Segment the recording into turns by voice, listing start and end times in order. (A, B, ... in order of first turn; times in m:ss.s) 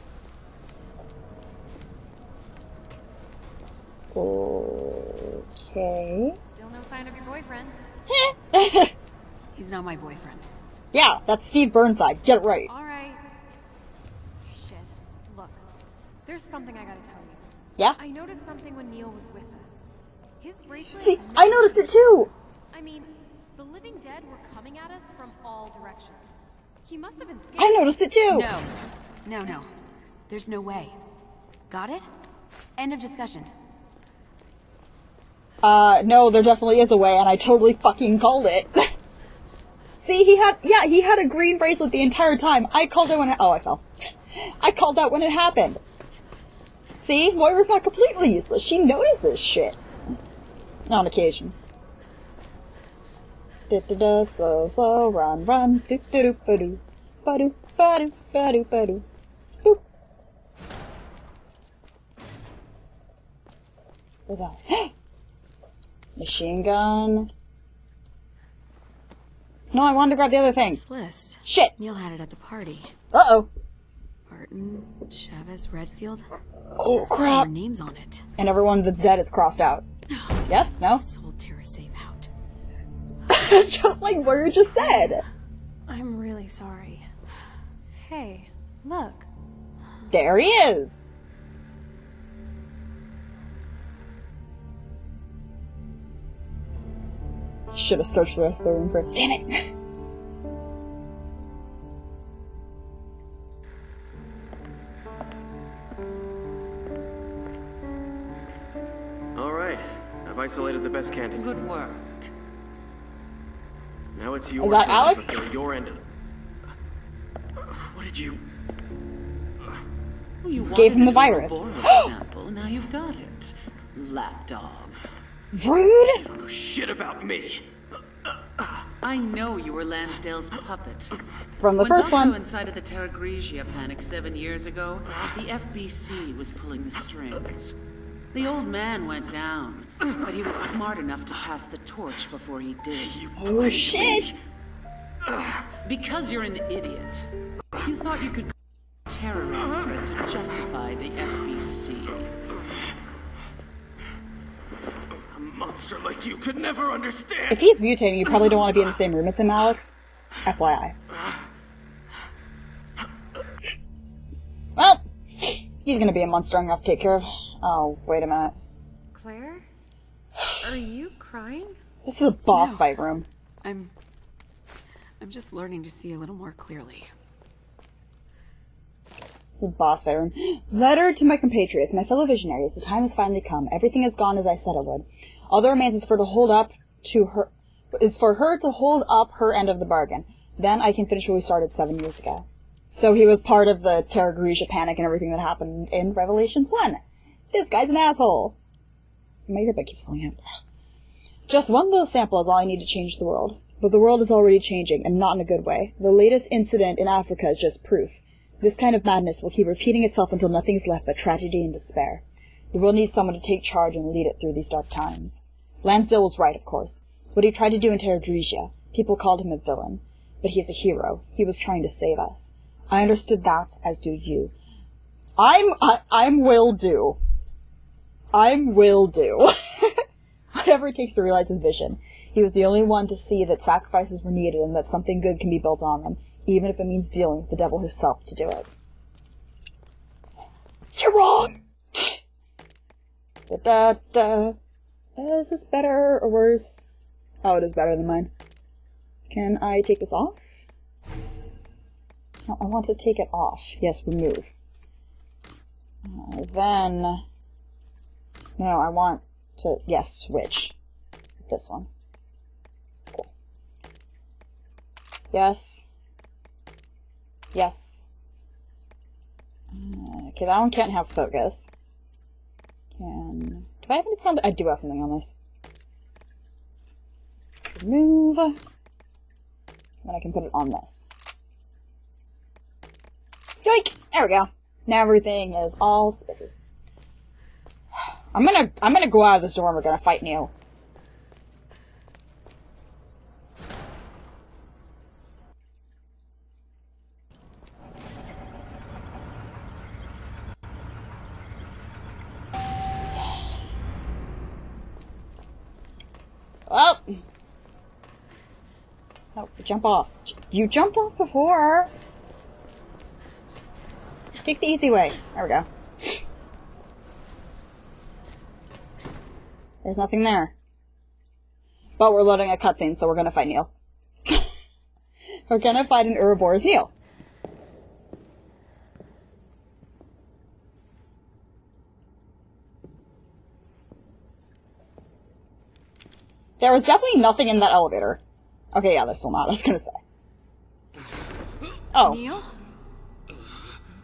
0:04.1-0:06.4 A
0:06.4-0:07.8 B
0:08.1-0:08.9 A
0:09.5-0:10.5 C
0:10.9-0:12.7 A
0:12.7-0:13.2 B
0:14.4-0:15.6 B
0:16.2-0:17.4 B
0:18.0-0:21.9 B
0:21.0-0:22.3 A
0:22.7-0:27.9 B
0:27.6-0:28.5 A
0:28.3-0:28.7 C
0:29.2-0:29.7 C
0:30.3-0:30.9 C
0:31.7-0:32.1 C
0:32.8-0:33.5 C
0:35.6-0:38.9 A
0:40.0-0:43.8 A
0:44.4-0:45.8 A
0:47.0-0:49.9 A
0:50.9-0:51.5 A
0:53.7-0:59.0 A
1:04.3-1:04.9 A
1:06.2-1:07.3 A
1:09.7-1:10.8 A
1:10.7-1:12.9 C
1:11.4-1:11.7 A
1:13.1-1:13.5 A
1:14.3-1:16.2 C
1:16.8-1:17.5 A
1:16.9-1:18.3 C
1:18.4-1:19.8 A
1:20.1-1:22.3 C
1:20.5-1:21.0 A
1:23.3-1:25.2 A
1:25.9-1:27.0 B
1:27.9-1:29.3 B
1:30.1-1:31.0 A
1:37.7-1:39.7 A
1:49.3-1:51.6 D
1:51.3-1:52.3 E
1:54.1-1:56.0 D
1:54.6-1:55.4 A
1:57.9-1:58.4 D
2:00.4-2:05.0 E
2:00.7-2:02.0 A
2:05.5-2:06.2 A
2:06.2-2:07.6 D
2:09.0-2:11.2 E
2:11.6-2:12.4 A
2:11.8-2:17.8 E
2:18.3-2:23.3 E
2:23.2-2:24.1 D
2:23.4-2:24.4 A
2:25.8-2:28.5 E
2:29.1-2:32.2 E
2:35.4-2:37.5 D
2:37.5-2:40.9 A
2:44.8-2:48.5 A
2:49.1-2:49.6 B
2:50.6-2:51.8 B
2:52.0-2:53.3 A
2:52.5-2:52.9 C
2:53.6-2:53.9 C
2:55.2-2:57.1 C
2:59.5-3:17.0 A
3:17.5-3:18.6 A
3:19.5-3:20.4 A
3:21.5-3:44.5 A
3:45.4-3:47.2 A
3:48.3-3:50.0 A
3:50.5-3:58.7 A
4:00.9-4:02.2 A
4:03.5-4:04.6 A
4:05.2-4:06.9 A
4:07.4-4:08.3 A
4:09.3-4:10.4 A
4:12.5-4:14.5 A
4:16.0-4:17.2 A
4:18.6-4:20.7 A
4:21.4-4:21.9 A
4:25.3-4:25.9 A
4:27.5-4:28.1 A
4:29.7-4:31.7 A
4:33.0-4:35.3 A
4:37.7-4:38.6 A
4:40.0-4:41.1 A
4:43.6-4:46.5 A
4:48.3-4:50.5 A
5:06.7-5:07.2 A
5:09.4-5:11.9 A
5:14.4-5:16.2 A
5:19.8-5:20.5 A
5:22.0-5:23.7 A
5:25.5-5:26.9 A
5:36.6-5:38.2 A
5:38.7-5:40.0 A
5:41.9-5:42.2 A
5:42.0-5:42.5 C